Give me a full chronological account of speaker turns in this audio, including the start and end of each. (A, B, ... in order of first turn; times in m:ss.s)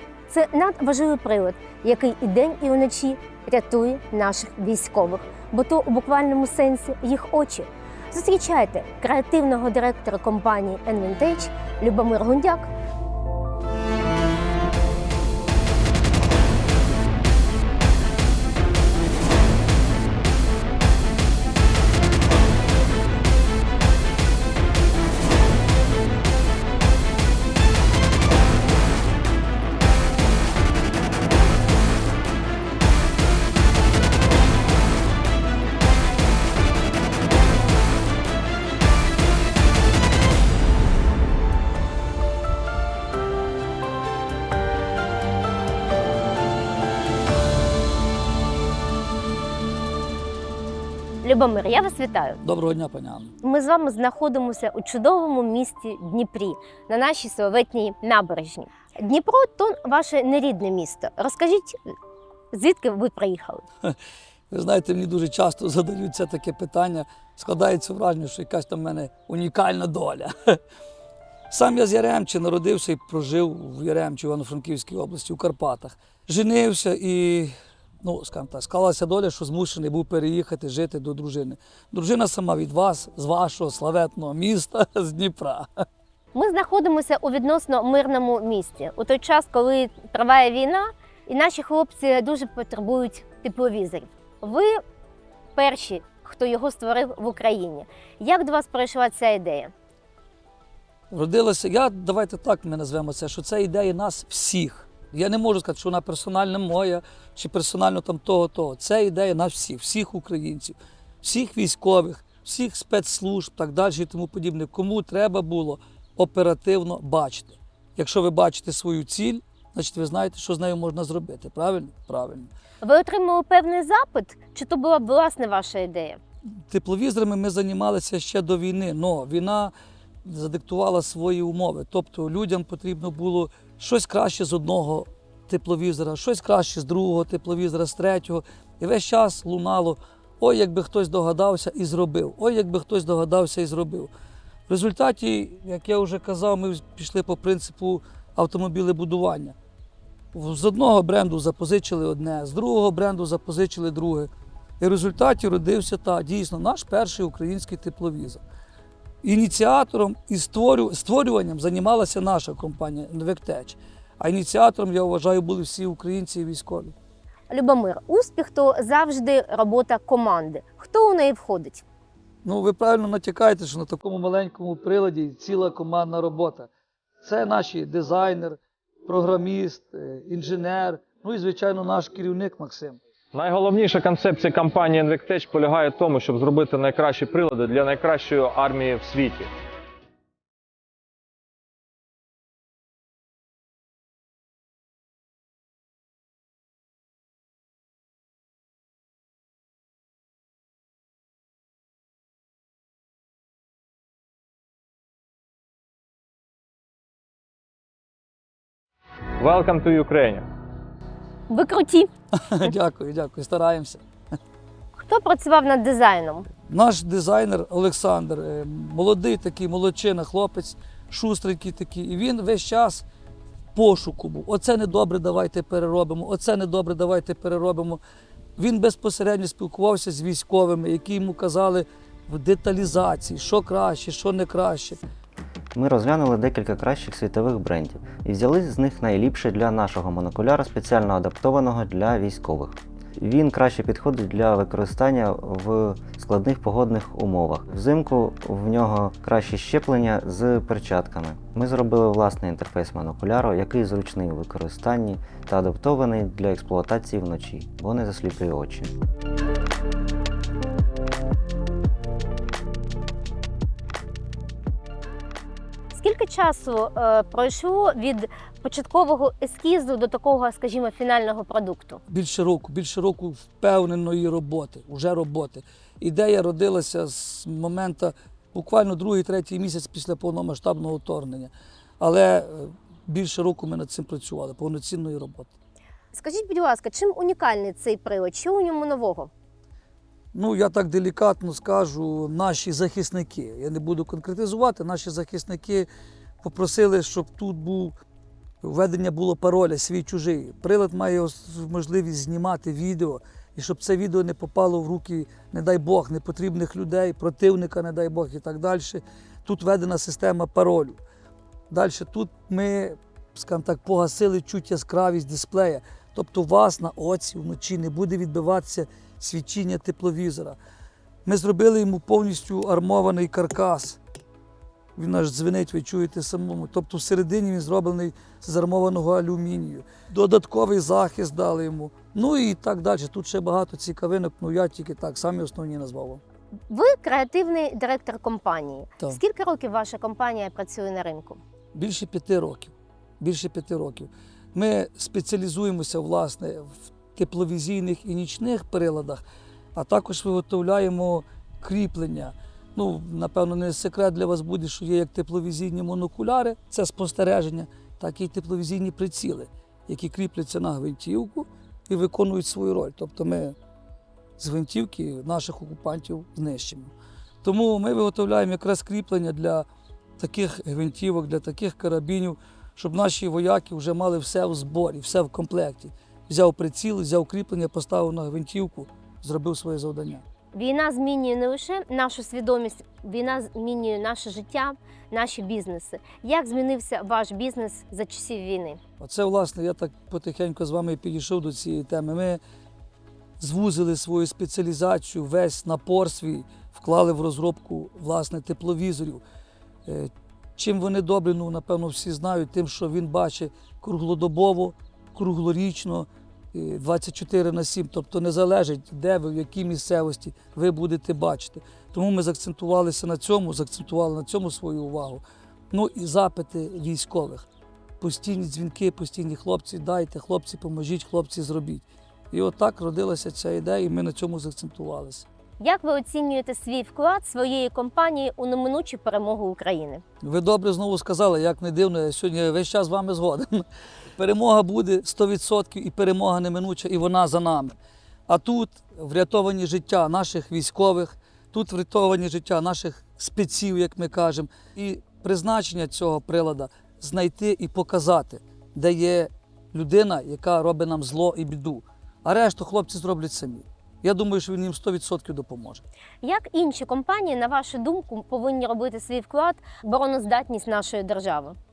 0:00.3-0:12.7 A
0:51.2-0:52.4 A
0:52.4-0:53.3 B
0:53.4-1:01.9 A
1:02.5-1:03.6 A
1:04.5-1:10.6 B
1:11.5-1:25.7 B
1:26.3-1:34.8 A
1:35.6-1:39.7 A
1:41.1-2:02.5 B
2:02.8-2:06.2 A
2:06.7-2:09.7 B
2:10.2-2:24.1 B
2:24.7-2:29.6 B
2:30.3-2:34.3 B
2:34.8-2:38.4 B
2:39.2-2:46.9 B
2:47.5-2:51.8 A
2:52.4-2:56.7 B
2:57.2-3:03.0 B
3:03.3-3:09.5 C
3:29.4-3:30.4 C
3:31.5-3:32.1 A
3:32.4-3:34.0 B
3:34.9-3:36.5 A
3:36.7-3:43.0 B
3:43.7-3:48.0 B
3:48.6-3:55.0 B
3:55.7-4:18.9 D
4:25.9-4:32.0 A
4:32.1-4:45.5 B
4:46.1-4:49.3 A
4:50.3-4:55.9 B
4:56.4-4:57.9 B
4:58.6-5:11.0 B
5:11.7-5:20.6 B
5:21.2-5:24.0 B
5:25.0-5:36.2 B
5:36.7-5:41.4 A
5:41.7-5:49.2 B
5:49.7-6:03.6 B
6:04.4-6:06.9 B
6:07.4-6:09.7 B
6:10.2-6:20.2 B
6:20.5-6:28.8 A
6:29.0-6:32.4 B
6:33.4-6:39.2 B
6:39.8-6:57.5 B
6:58.0-7:05.2 B
7:05.6-7:10.0 A
7:10.2-7:13.6 B
7:14.2-7:17.7 B
7:18.3-7:35.8 B
7:36.2-7:41.6 A